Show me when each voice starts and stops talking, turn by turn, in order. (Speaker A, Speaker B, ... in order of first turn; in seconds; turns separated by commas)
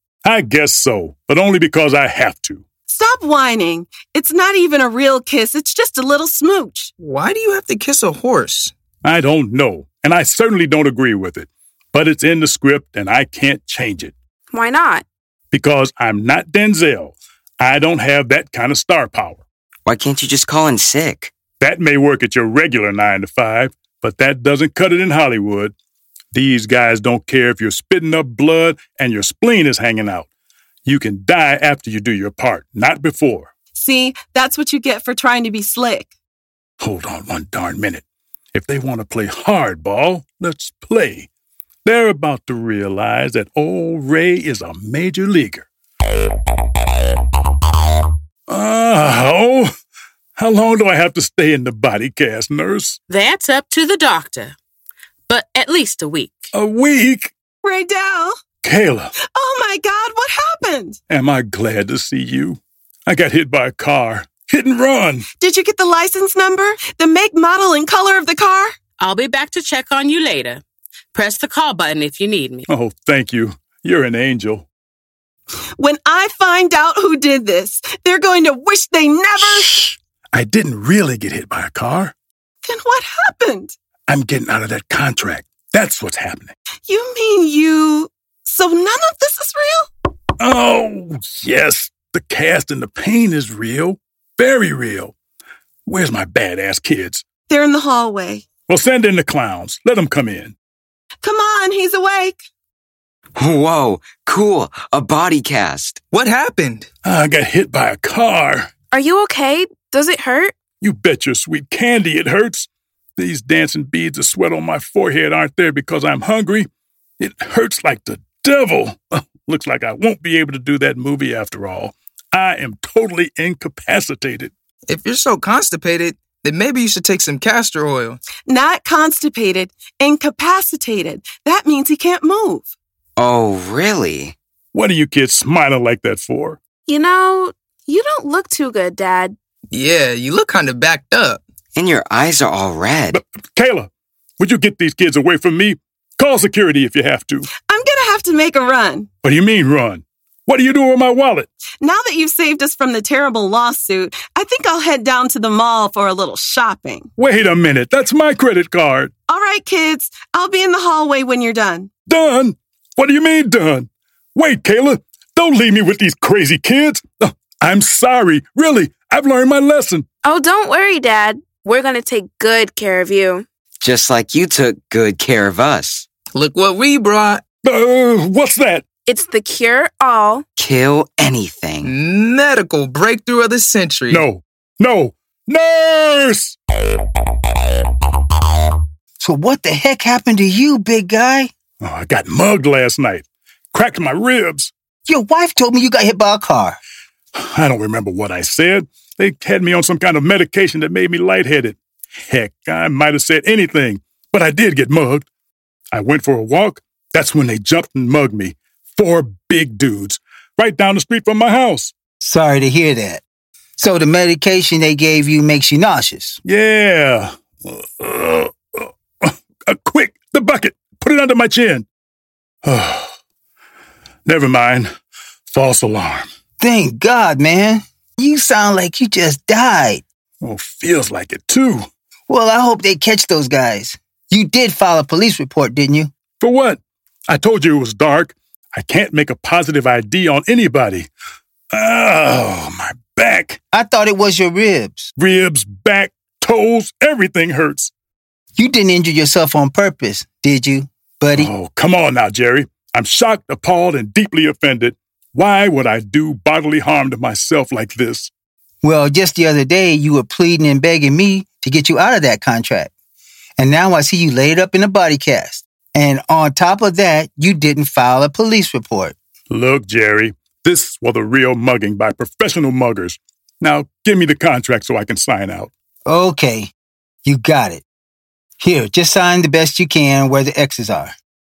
Speaker A: 0.2-2.6, Speaker B: 2.9-6.9, Speaker C: 7.0-8.7, Speaker A: 9.0-14.1, Speaker D: 14.5-15.0, Speaker A: 15.5-19.4, Speaker E: 19.9-21.3, Speaker A: 21.6-25.7, Speaker A: 26.3-30.3, Speaker A: 30.9-33.5, Speaker B: 33.7-36.1, Speaker A: 36.8-41.3, Speaker A: 41.8-45.6, Speaker A: 48.5-49.7, Speaker A: 50.4-53.0, Speaker F: 53.1-54.5, Speaker F: 55.3-56.5, Speaker A: 56.5-57.3, Speaker B: 57.6-58.4, Speaker A: 58.6-59.1, Speaker B: 59.3-61.0, Speaker A: 61.1-65.2, Speaker B: 65.4-68.7, Speaker F: 69.0-70.6, Speaker F: 71.1-72.7, Speaker A: 72.7-74.7, Speaker B: 75.8-79.7, Speaker A: 79.5-82.1, Speaker B: 82.6-83.7, Speaker A: 84.1-86.5, Speaker B: 86.9-89.9, Speaker A: 90.4-95.1, Speaker A: 95.8-97.2, Speaker B: 97.5-98.4, Speaker A: 98.7-100.5, Speaker B: 101.2-102.4, Speaker E: 103.3-106.0, Speaker C: 106.1-106.9, Speaker A: 107.0-108.7, Speaker D: 108.9-110.5, Speaker A: 110.8-116.7, Speaker A: 117.2-124.5, Speaker C: 124.9-128.2, Speaker B: 128.4-132.7, Speaker E: 133.2-134.3, Speaker A: 134.7-136.6, Speaker D: 136.9-139.3, Speaker C: 139.7-141.4, Speaker E: 141.8-143.2, Speaker A: 143.1-147.5, Speaker B: 147.6-149.1, Speaker A: 149.2-151.5, Speaker B: 151.8-157.1, Speaker A: 157.2-159.1, Speaker B: 159.3-161.9, Speaker A: 162.1-170.0, Speaker D: 170.2-173.4, Speaker E: 173.8-176.1, Speaker C: 176.3-177.4, Speaker A: 177.6-178.8, Speaker D: 179.1-180.4, Speaker E: 180.6-181.9, Speaker C: 181.8-184.2, Speaker A: 184.1-186.6, Speaker G: 189.2-191.5, Speaker A: 191.8-194.7, Speaker G: 195.1-196.8, Speaker A: 197.3-205.2, Speaker A: 205.9-211.9, Speaker G: 212.2-213.2, Speaker G: 213.8-216.4, Speaker A: 216.4-221.8, Speaker A: 222.6-223.1, Speaker A: 224.2-224.9, Speaker A: 225.5-226.3, Speaker G: 226.6-230.0, Speaker A: 230.4-231.9, Speaker G: 232.3-236.1, Speaker A: 236.4-241.1, Speaker A: 241.7-243.6, Speaker G: 243.7-245.1, Speaker A: 245.2-247.9, Speaker G: 248.6-251.5, Speaker A: 251.3-258.3, Speaker G: 258.8-262.9, Speaker G: 263.6-269.1, Speaker A: 269.5-275.7, Speaker G: 276.1-276.7, Speaker G: 277.2-277.8, Speaker G: 278.6-281.1